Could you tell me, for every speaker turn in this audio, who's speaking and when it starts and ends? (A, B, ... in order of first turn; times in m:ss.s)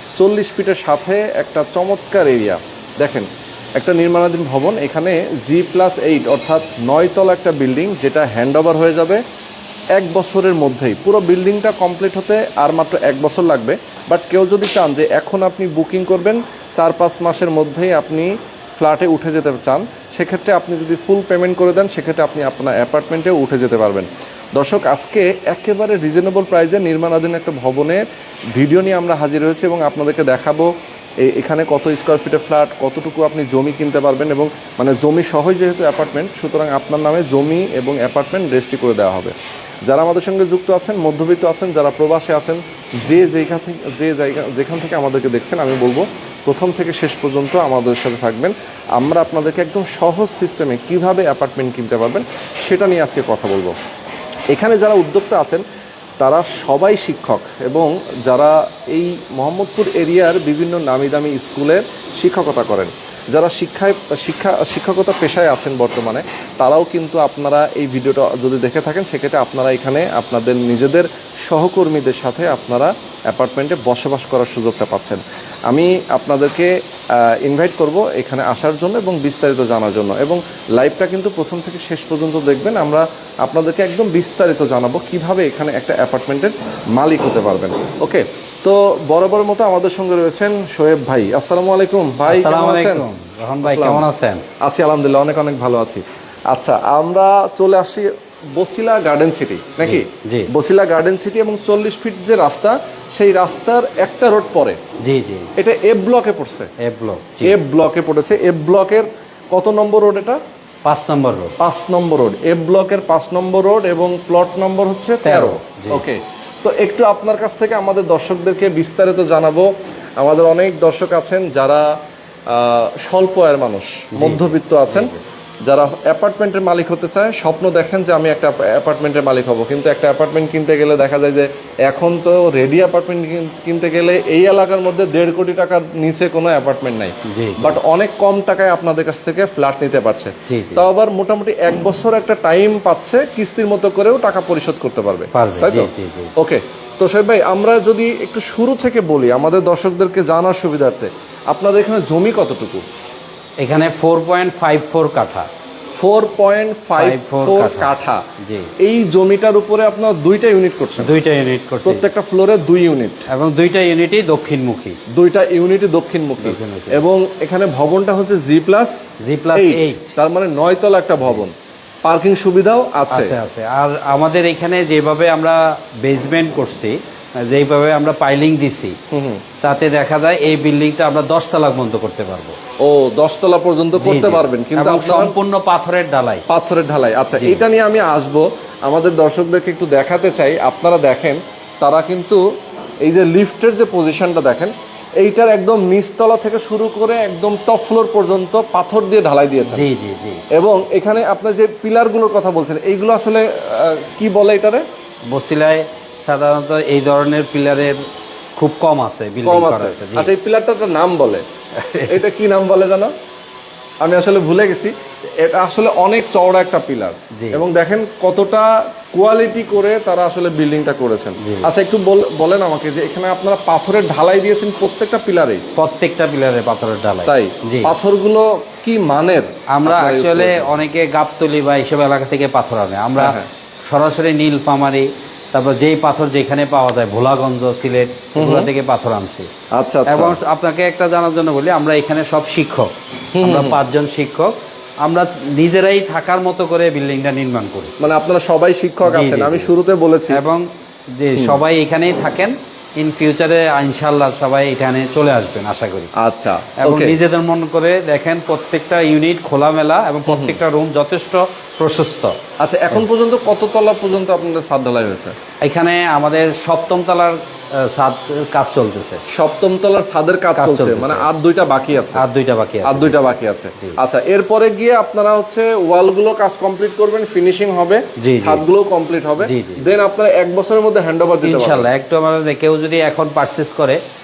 0:00.2-0:09.2 A
0:09.9-0:28.0 A
0:28.5-0:30.7 A
0:31.2-0:39.3 A
0:39.8-0:53.7 A
0:54.5-0:55.6 A
0:56.2-1:33.0 A
1:32.2-1:34.4 B
1:33.6-1:34.1 A
1:34.6-1:44.8 A
1:39.8-1:40.5 B
1:45.0-1:45.5 B
1:45.6-1:46.7 A
1:46.8-1:47.6 B
1:47.4-1:50.4 A
1:50.8-1:51.5 B
1:51.6-1:59.7 A
1:55.2-1:56.0 B
2:00.2-2:01.9 A
2:02.5-2:05.1 A
2:04.1-2:05.2 B
2:05.6-2:32.8 A
2:17.3-2:17.8 B
2:20.5-2:20.9 B
2:25.3-2:26.3 B
2:33.6-2:35.5 B
2:36.0-2:38.2 A
2:37.0-2:38.7 B
2:38.8-2:41.1 A
2:41.0-2:42.0 B
2:41.8-2:43.3 A
2:43.3-2:45.0 B
2:45.1-2:48.9 A
2:46.4-2:47.0 B
2:49.2-2:50.1 B
2:49.5-2:51.5 A
2:52.0-2:53.3 A
2:53.1-2:59.0 B
2:59.1-2:59.4 A
2:59.6-3:02.6 B
3:02.8-3:05.3 A
3:04.0-3:06.4 B
3:06.5-3:12.4 A
3:07.4-3:07.6 B
3:13.0-3:19.9 A
3:19.7-3:20.4 B
3:20.5-3:24.8 A
3:25.3-3:28.0 B
3:28.6-3:30.3 B
3:29.4-3:31.4 A
3:31.8-3:32.2 B
3:32.1-3:33.1 A
3:34.0-3:45.6 A
3:37.4-3:37.6 B
3:41.4-3:41.7 B
3:45.8-3:47.9 B
3:47.2-3:50.8 A
3:49.8-3:59.5 B
3:53.2-3:53.5 A
3:58.3-3:58.7 A
3:59.7-4:00.4 A
4:00.1-4:08.1 B
4:03.3-4:03.8 A
4:08.0-4:10.4 A
4:09.0-4:09.7 B
4:10.3-4:16.1 B
4:16.2-4:17.2 A
4:16.8-4:22.4 B
4:20.3-4:20.6 A
4:22.6-4:25.3 A
4:25.6-4:29.2 B
4:29.3-4:32.2 A
4:30.6-4:31.3 B
4:32.2-4:33.2 B
4:32.8-4:41.9 A
4:38.2-4:38.6 B
4:39.4-4:39.8 B
4:41.4-4:44.0 B